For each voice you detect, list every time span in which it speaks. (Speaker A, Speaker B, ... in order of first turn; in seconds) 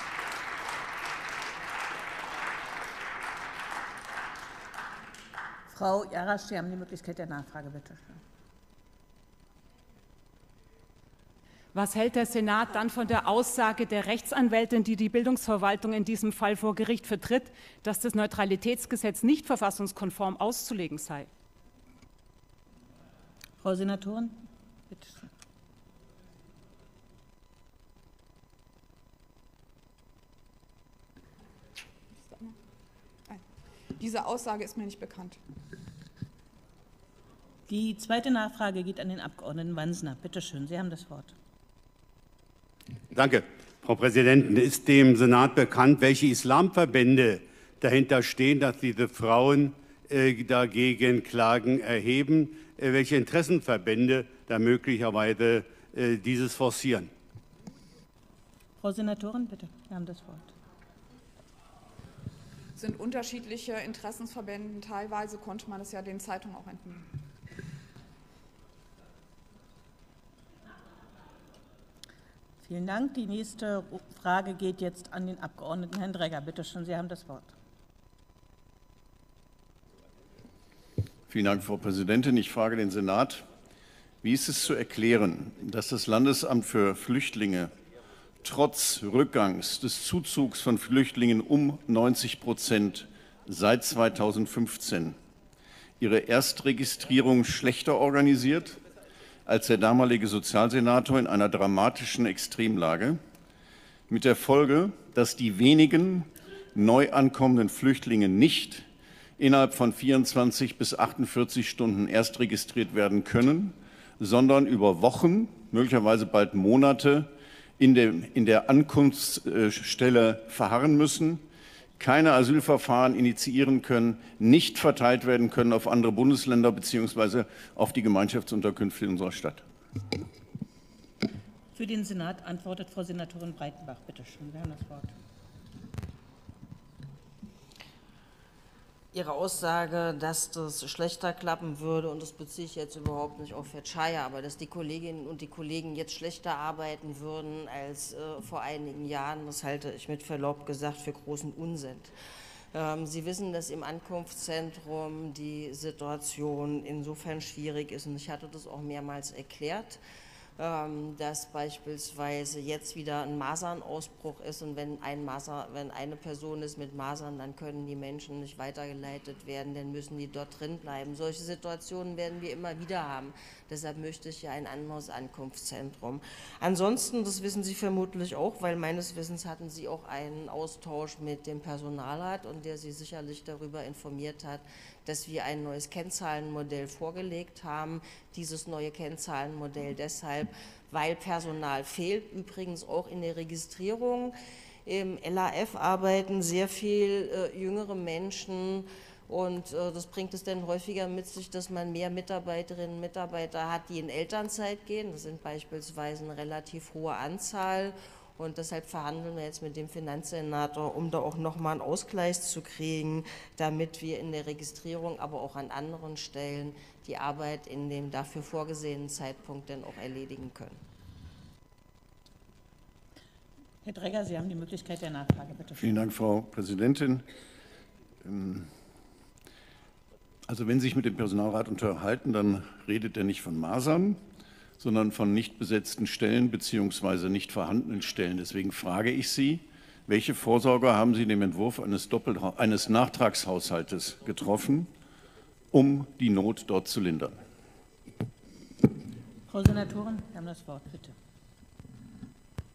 Speaker A: 5.7-8.2, 23.6-25.3, 37.7-41.3, 58.8-60.5, 72.6-77.5, 131.7-135.1, 223.8-226.0, 249.5-251.2
Speaker B: 11.8-21.3
Speaker C: 32.2-32.5, 34.0-35.4, 62.8-67.1
Speaker D: 43.1-57.1
Speaker E: 81.3-83.5, 84.2-87.7, 88.4-95.2, 96.0-98.8, 99.5-103.2, 104.1-108.9, 109.4-121.4, 122.0-129.7, 225.8-227.3, 228.2-228.7, 230.5-234.2, 234.8-244.9, 245.7-247.4
Speaker F: 139.1-152.1, 152.7-160.0, 160.6-194.3, 194.9-220.8